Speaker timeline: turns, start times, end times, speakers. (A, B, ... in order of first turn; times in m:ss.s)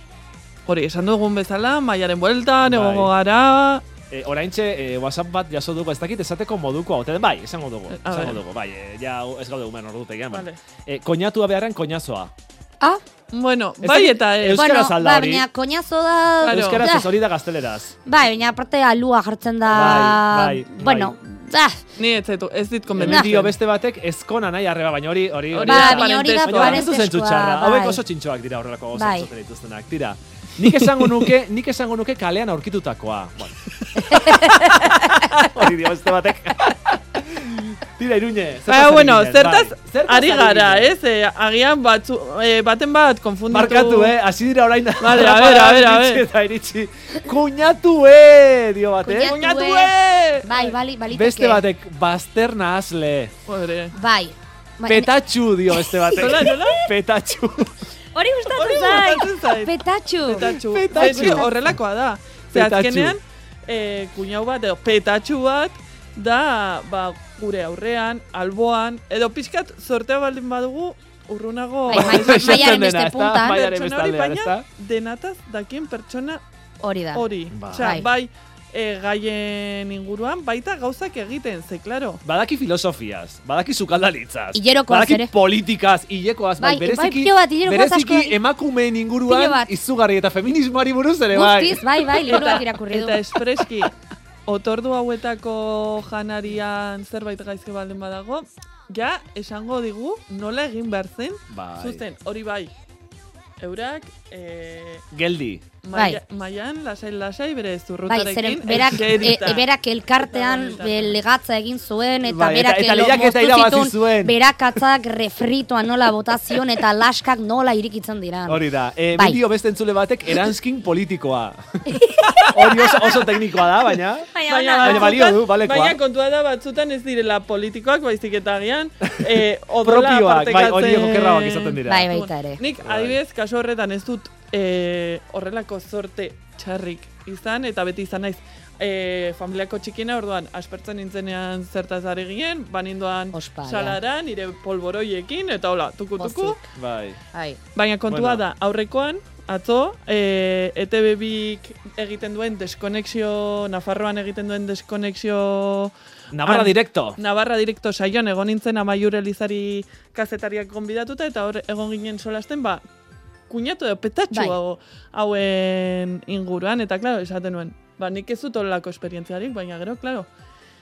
0:00.7-0:03.8 A
0:02.6-0:03.1 B
0:04.1-0:12.3 B
0:07.9-0:08.4 A
0:10.3-0:10.6 A
0:13.3-0:14.6 A
0:13.8-0:15.5 B
0:14.5-0:17.1 C
0:16.4-0:16.9 A
0:16.5-0:18.0 B
0:18.1-0:21.8 C
0:19.6-0:21.2 B
0:22.0-0:23.6 A
0:22.9-0:40.9 B
0:23.0-0:23.3 C
0:25.5-0:26.9 A
0:25.6-0:28.0 C
0:28.9-0:29.3 C
0:30.8-0:31.2 A
0:34.2-0:34.7 C
0:38.7-0:44.2 A
0:43.5-0:49.4 B
0:45.0-0:46.2 A
0:49.1-0:49.9 C
0:49.1-0:50.8 A
0:50.4-0:51.6 C
0:51.1-0:53.3 B
0:53.5-0:54.0 A
0:53.9-0:55.1 C
0:54.9-0:57.7 B
0:55.7-0:56.7 C
0:56.2-0:56.8 A
0:58.2-1:01.5 C
0:58.5-1:16.4 A
1:00.7-1:01.5 B
1:02.5-1:03.2 B
1:11.9-1:13.6 C
1:11.9-1:14.6 B
1:16.8-1:17.2 C
1:17.1-1:22.2 A
1:17.5-1:18.0 B
1:17.8-1:18.1 C
1:22.2-1:32.4 B
1:24.5-1:25.3 C
1:26.6-1:28.4 C
1:29.2-1:29.7 C
1:31.3-1:33.2 C
1:32.2-1:33.9 A
1:34.5-1:42.7 A
1:41.5-1:42.0 B
1:43.6-1:45.0 A
1:45.1-1:45.6 B
1:45.8-1:51.2 A
1:45.9-1:46.2 C
1:48.1-1:59.4 C
1:52.2-1:54.4 B
1:58.5-2:01.6 B
2:01.9-2:02.5 C
2:02.5-2:06.0 B
2:04.3-2:05.3 C
2:04.4-2:26.6 A
2:09.8-2:12.1 B
2:11.8-2:12.6 C
2:12.8-2:13.2 B
2:23.3-2:24.0 C
2:26.2-2:26.6 C
2:26.8-2:27.2 B
2:27.3-2:27.6 C
2:27.8-2:42.8 A
2:28.1-2:28.4 B
2:36.3-2:37.2 B
2:43.5-2:50.3 A